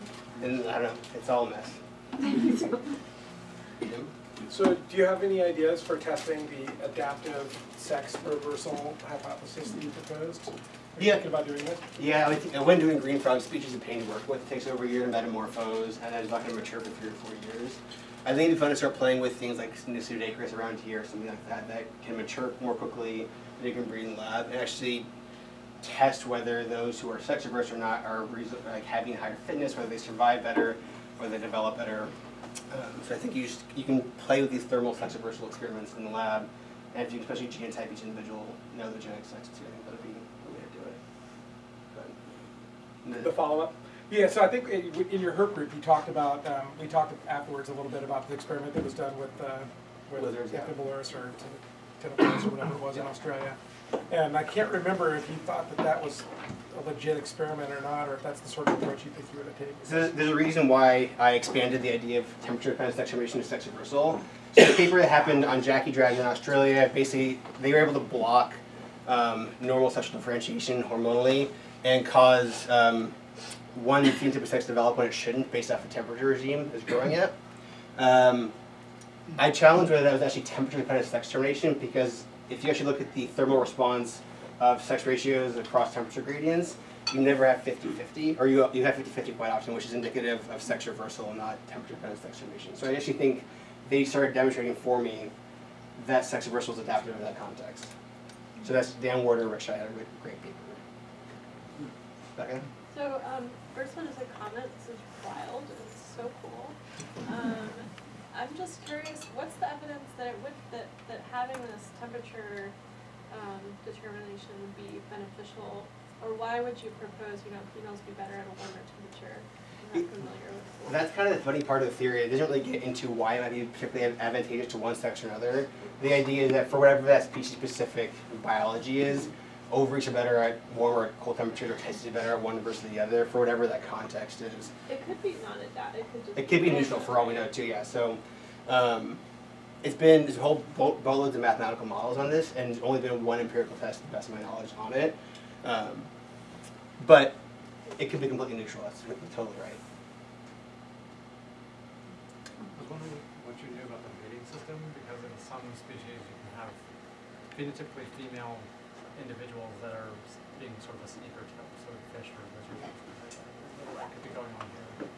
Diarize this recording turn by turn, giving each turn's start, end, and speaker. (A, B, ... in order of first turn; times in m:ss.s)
0:00.4-0:01.8 A
0:03.8-0:04.1 A
0:04.4-0:11.8 B
0:11.0-0:11.3 A
0:12.0-0:25.1 A
0:25.8-0:32.1 A
0:32.7-0:41.0 A
0:41.9-0:42.2 A
0:43.0-0:43.4 A
0:43.2-0:53.6 B
0:50.2-0:50.7 A
0:54.1-0:59.8 B
0:59.8-1:13.2 A
1:13.7-1:17.4 A
1:18.0-1:18.5 A
1:19.4-1:35.3 A
1:36.0-1:37.9 A
1:38.6-1:40.8 A
1:42.4-1:42.7 A
1:42.9-1:52.8 C
1:53.3-2:01.0 C
2:00.9-2:14.7 A
2:14.9-2:17.6 C
2:16.4-2:19.2 A
2:19.8-2:26.1 A
2:27.0-2:27.4 A
2:28.0-2:29.8 A
2:32.8-2:36.8 D
2:37.5-2:45.0 D